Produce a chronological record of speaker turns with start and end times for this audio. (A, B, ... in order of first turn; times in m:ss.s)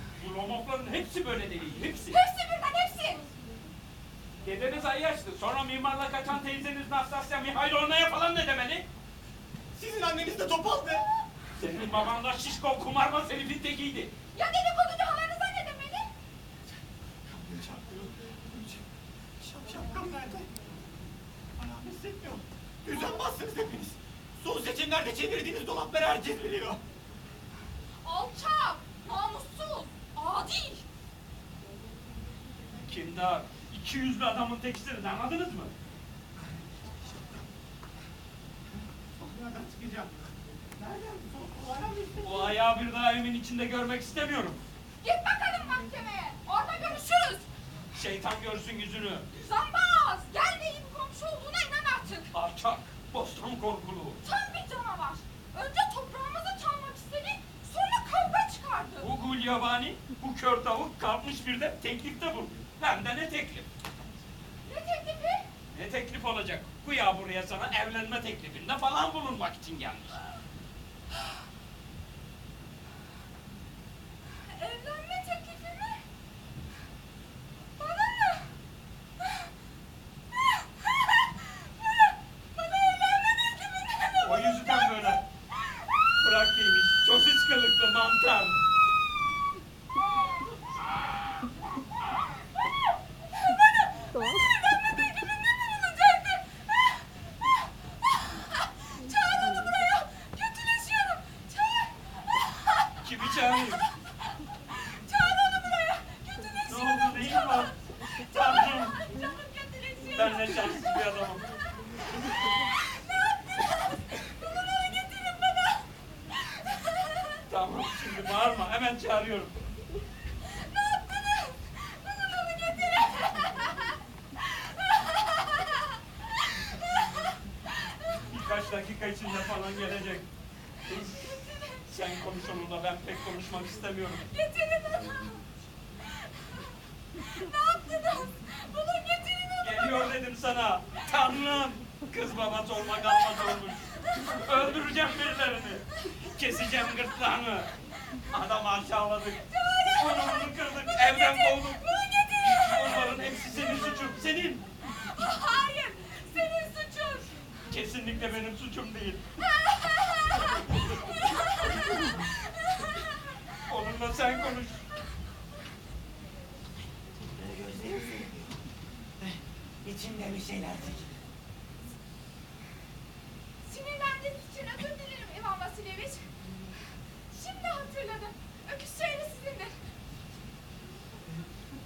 0:00.2-0:02.2 A
0:02.1-0:03.2 B
0:04.4-0:08.9 A
0:09.7-0:11.0 C
0:11.6-0:14.1 A
0:14.3-0:16.1 B
0:17.3-0:18.8 C
0:19.4-0:20.5 C
0:21.6-0:26.8 C
0:22.9-0:23.2 B
0:28.0-0:30.8 B
0:32.8-0:35.7 A
0:36.4-0:37.4 C
0:38.8-0:42.6 C
0:42.2-0:44.6 A
0:45.0-0:47.5 B
0:47.9-0:49.3 A
0:49.4-0:52.3 B
0:52.3-0:54.2 A
0:54.2-0:59.1 B
0:59.0-1:03.7 A
1:04.6-1:05.5 B
1:05.7-1:10.3 A
1:14.4-1:16.0 B
1:17.8-1:18.5 B
1:21.4-1:21.9 B
1:22.6-1:24.4 B
1:24.2-1:25.2 A
1:26.2-1:28.6 A
1:33.3-1:36.9 B
1:38.3-1:42.1 B
1:43.0-1:43.8 A
1:44.7-1:47.8 B
1:46.7-1:49.0 A
1:48.3-1:51.0 B
1:50.1-1:51.4 A
1:52.2-1:55.8 B
1:56.7-1:57.4 B
1:57.5-1:59.5 A
2:00.4-2:03.9 B
2:04.5-2:05.9 B
2:08.3-2:10.3 A
2:10.8-2:14.3 A
2:11.3-2:11.7 B
2:14.3-2:15.4 B
2:17.3-2:20.1 B
2:19.6-2:27.7 A
2:28.3-2:31.8 A
2:29.5-2:32.9 B
2:32.5-2:34.6 A
2:35.2-2:37.4 B
2:37.7-2:39.2 A
2:39.4-2:42.0 B
2:43.6-2:44.8 A
2:47.3-2:48.5 C
2:49.2-2:51.2 C
2:53.6-2:56.3 B
2:57.3-2:59.8 B